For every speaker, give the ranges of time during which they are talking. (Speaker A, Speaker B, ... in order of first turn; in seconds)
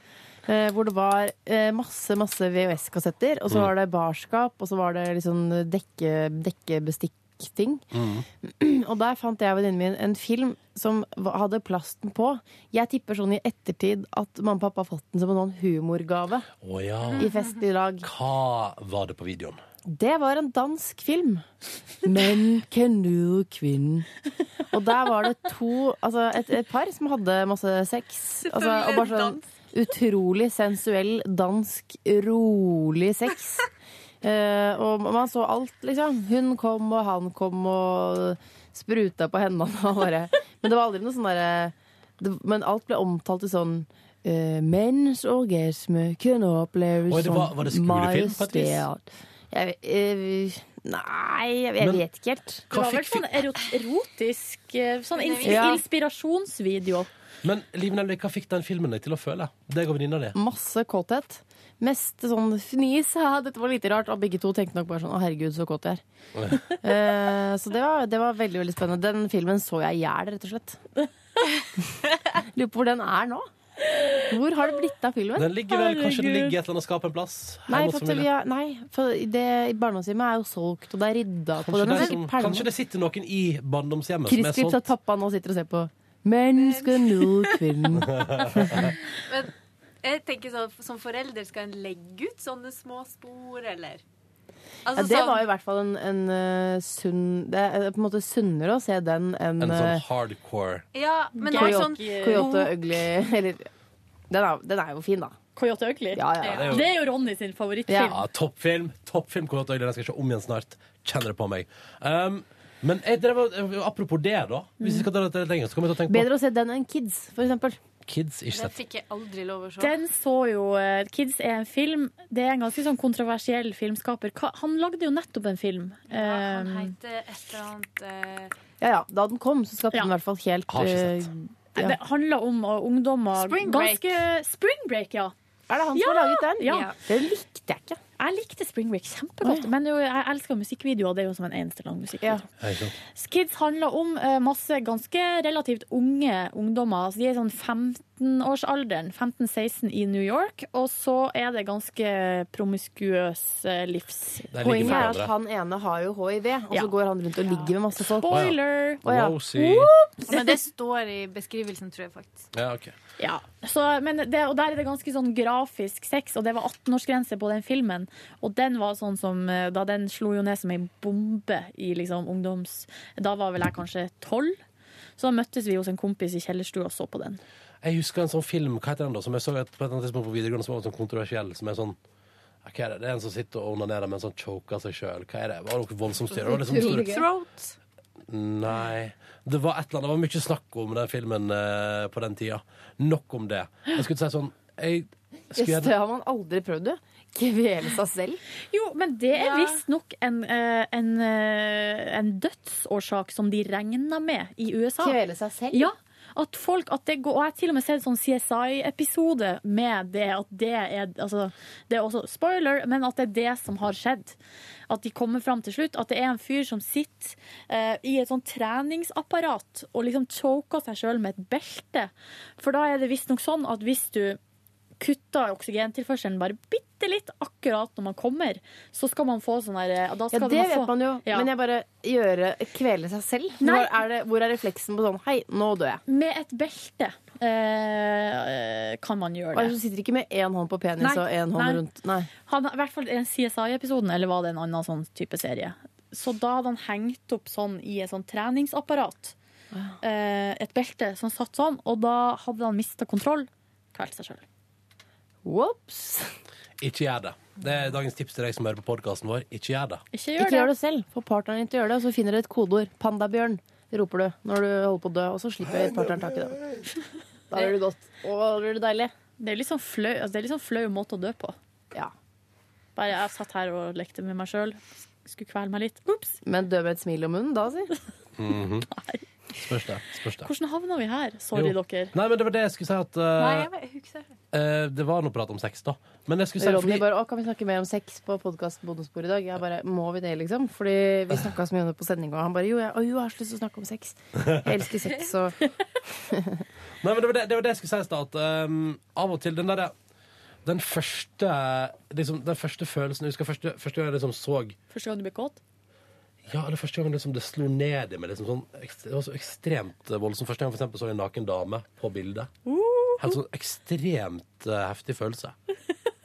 Speaker A: 0.5-7.8, 8.4-16.5, 17.2-18.1, 19.9-21.4, 22.0-24.1, 24.7-33.7, 34.2-52.6, 55.4-55.8, 60.3-66.0, 66.8-70.8, 72.3-73.5, 74.3-75.5, 77.7-82.7, 84.3-88.9, 94.9-100.0, 101.5-103.7, 104.3-105.3, 106.1-106.8, 107.9-108.1, 116.1-117.8, 128.8-132.0, 135.7-138.0, 139.4-139.7, 154.6-158.4, 159.0-159.4, 186.3-187.3, 195.5-198.4, 205.0-205.9, 230.3-236.0, 239.5-242.3, 255.4-256.4, 260.4-266.6, 267.5-269.1, 276.4-277.9, 286.6-295.6, 296.3-296.6
Speaker B: 7.9-8.2, 16.6-17.3, 18.0-19.6, 47.1-48.9, 52.7-53.3, 57.4-60.3, 75.3-78.3, 81.6-84.8, 88.2-88.7, 99.6-100.8, 106.5-106.8, 108.1-116.3, 118.1-118.7, 130.7-131.3, 142.6-142.9, 154.5-155.3, 158.3-159.9, 162.5-162.9, 177.8-182.0, 182.6-187.1, 188.3-195.9, 256.8-260.0, 278.4-278.9, 279.6-280.5, 281.5-283.7, 284.5-287.0, 297.0-299.9, 300.6-304.8, 306.5-312.5, 313.2-315.5
Speaker C: 28.4-29.4, 55.1-55.8, 86.5-87.6, 89.3-94.0, 94.8-95.5, 100.9-102.7, 106.4-106.8, 118.5-120.0, 126.1-128.5, 133.3-134.2, 136.6-137.0, 160.2-162.5, 186.8-187.7, 199.3-199.8, 283.4-284.3
Speaker D: 52.7-57.1, 73.9-74.2, 75.7-76.5, 101.3-102.6, 105.5-108.2, 119.8-126.9, 131.8-135.3, 135.9-136.9, 138.2-142.4, 143.1-155.1, 157.5-160.6, 163.2-174.6, 175.2-177.4, 198.7-205.2, 205.7-214.3, 214.9-224.4, 225.0-231.5, 233.6-233.9, 236.1-239.8, 241.0-241.8, 242.5-249.3, 250.0-254.4, 260.1-260.7, 269.4-271.6, 272.9-276.4, 278.9-279.2, 280.4-282.1, 304.9-305.6, 312.6-313.4